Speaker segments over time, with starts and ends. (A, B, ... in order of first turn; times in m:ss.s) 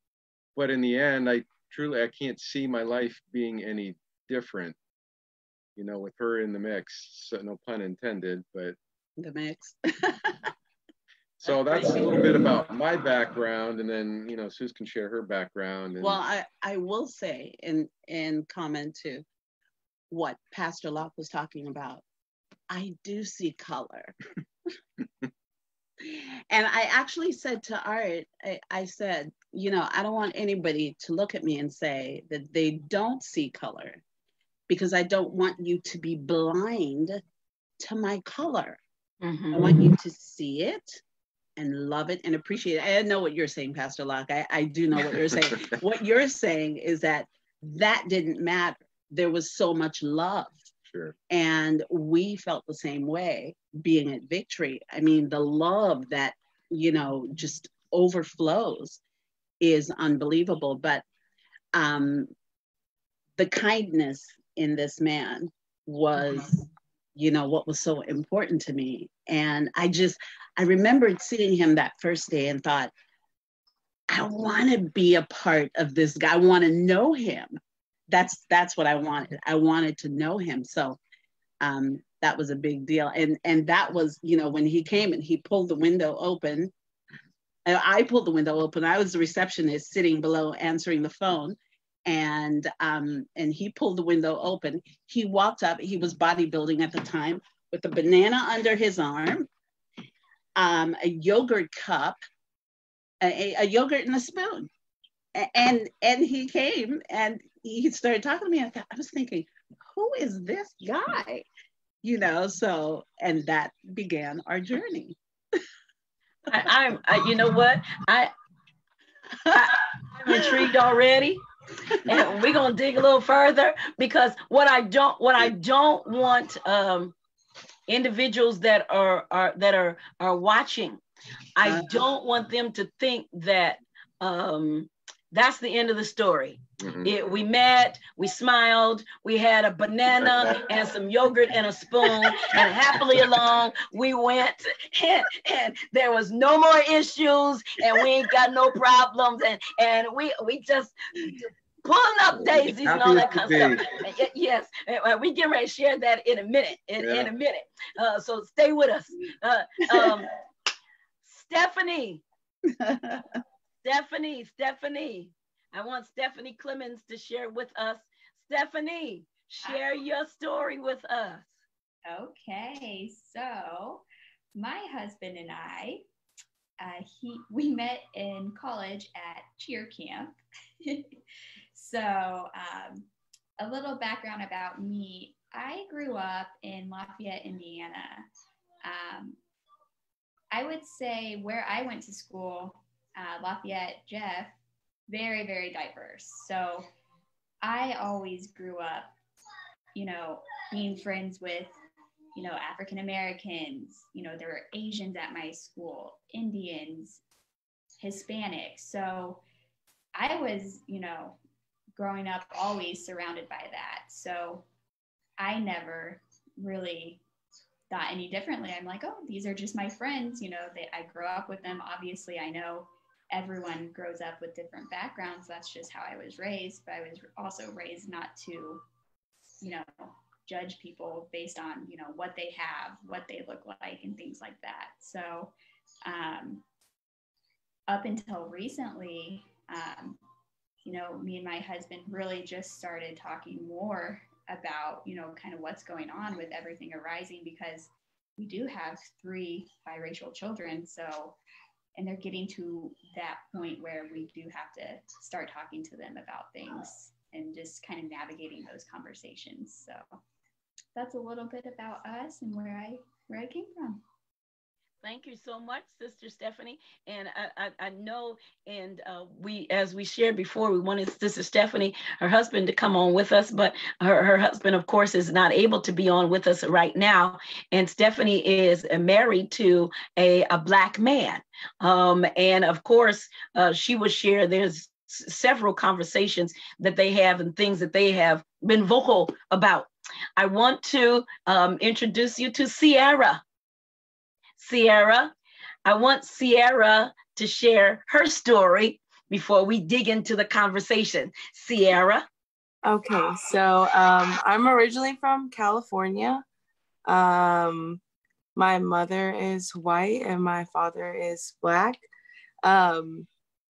0:00.6-0:04.8 A
0:05.8-0:08.8 A
0:09.2-0:10.5 B
0:11.4-0:16.2 A
0:11.5-0:12.6 B
0:16.0-0:19.2 B
0:20.1-0:22.0 B
0:22.7-0:24.2 B
0:26.0-0:34.0 B
0:34.7-0:37.2 B
0:37.8-0:38.8 B
0:39.2-0:39.7 C
0:39.5-0:41.0 B
0:41.6-0:50.7 B
0:51.3-0:59.0 B
0:59.6-1:01.0 B
1:01.7-1:02.3 B
1:03.4-1:12.9 B
1:14.1-1:17.5 B
1:18.1-1:21.0 B
1:21.6-1:26.7 B
1:27.7-1:39.5 B
1:40.6-1:42.2 B
1:43.2-1:44.7 B
1:45.4-1:51.4 B
1:52.0-1:55.2 B
1:56.5-1:58.3 C
1:59.5-2:01.4 C
2:00.3-2:00.7 B
2:02.0-2:07.2 C
2:07.9-2:11.0 C
2:11.6-2:40.3 C
2:11.6-2:12.0 B
2:16.8-2:17.1 A
2:32.4-2:33.8 A
2:37.0-2:37.3 A
2:41.2-2:42.2 C
2:42.8-2:43.3 B
2:43.8-2:51.5 C
2:52.1-2:56.0 D
2:56.8-3:01.1 D
3:01.7-3:03.1 D
3:03.6-3:08.3 D
3:08.8-3:09.4 D
3:10.5-3:14.6 D
3:15.1-3:16.9 D
3:17.6-3:19.1 D
3:20.0-3:21.7 D
3:22.4-3:27.2 D
3:28.0-3:29.4 D
3:30.2-3:31.4 D
3:32.0-3:34.6 D
3:35.4-3:37.2 D
3:37.9-3:48.8 D
3:49.6-3:55.5 D
3:56.0-3:56.6 D
3:57.9-4:00.2 D
4:00.8-4:11.4 D
4:12.0-4:20.2 D
4:21.0-4:24.0 D
4:25.0-4:53.4 C
4:54.6-4:55.3 C
4:55.8-5:02.3 C
5:02.8-5:06.4 E
5:07.1-5:08.0 E
5:08.6-5:12.0 E
5:12.6-5:13.3 E